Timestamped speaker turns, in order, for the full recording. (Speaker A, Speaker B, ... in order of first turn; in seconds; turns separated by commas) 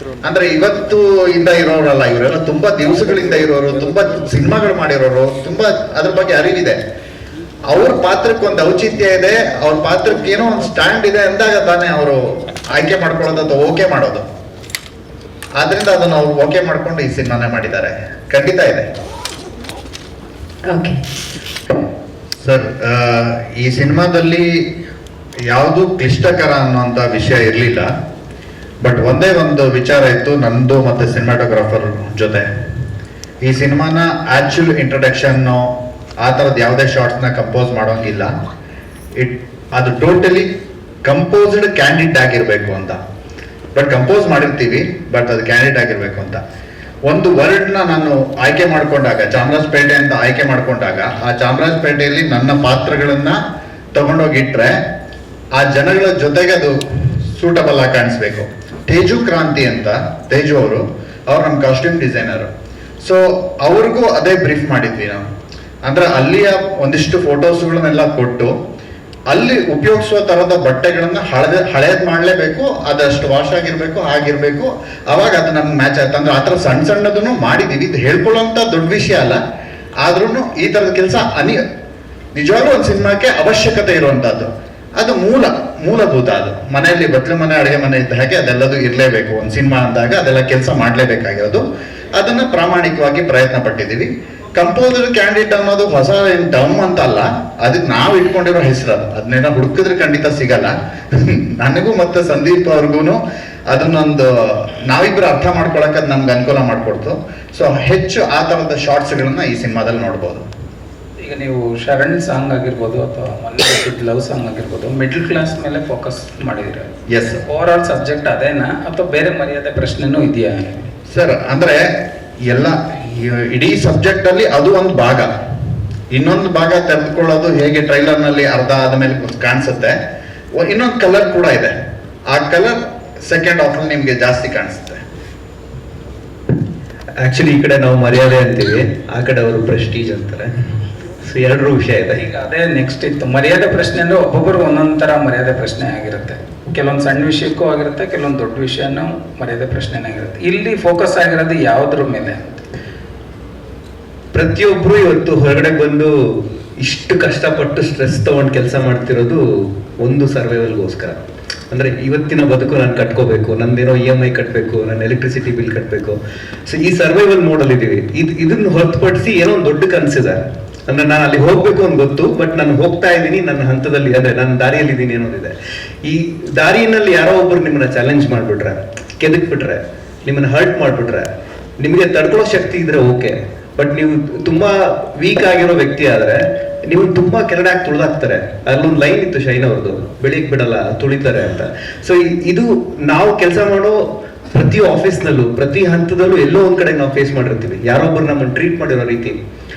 Speaker A: 0.2-6.8, Speaker A: 7.7-14.2, Speaker A: 15.6-18.9, Speaker A: 22.4-24.6, Speaker A: 25.5-27.9, Speaker A: 28.8-32.5, Speaker A: 33.4-38.4, Speaker A: 39.2-40.5, Speaker A: 41.0-43.0, Speaker A: 43.7-46.4, Speaker A: 47.1-53.4, Speaker A: 53.9-54.8, Speaker A: 55.5-62.5, Speaker A: 63.0-65.2, Speaker A: 65.8-68.5, Speaker A: 69.3-79.4, Speaker A: 80.0-81.6, Speaker A: 82.3-110.4, Speaker B: 111.2-116.9, Speaker A: 117.1-117.4, Speaker B: 117.5-120.9, Speaker A: 121.1-121.8, Speaker A: 122.5-125.3, Speaker A: 126.1-130.0, Speaker A: 130.6-131.8, Speaker A: 132.3-135.0, Speaker C: 137.2-140.5, Speaker C: 141.2-142.2, Speaker B: 142.2-152.6, Speaker C: 154.3-159.4, Speaker C: 160.0-161.2, Speaker C: 161.7-181.3, Speaker C: 181.8-199.4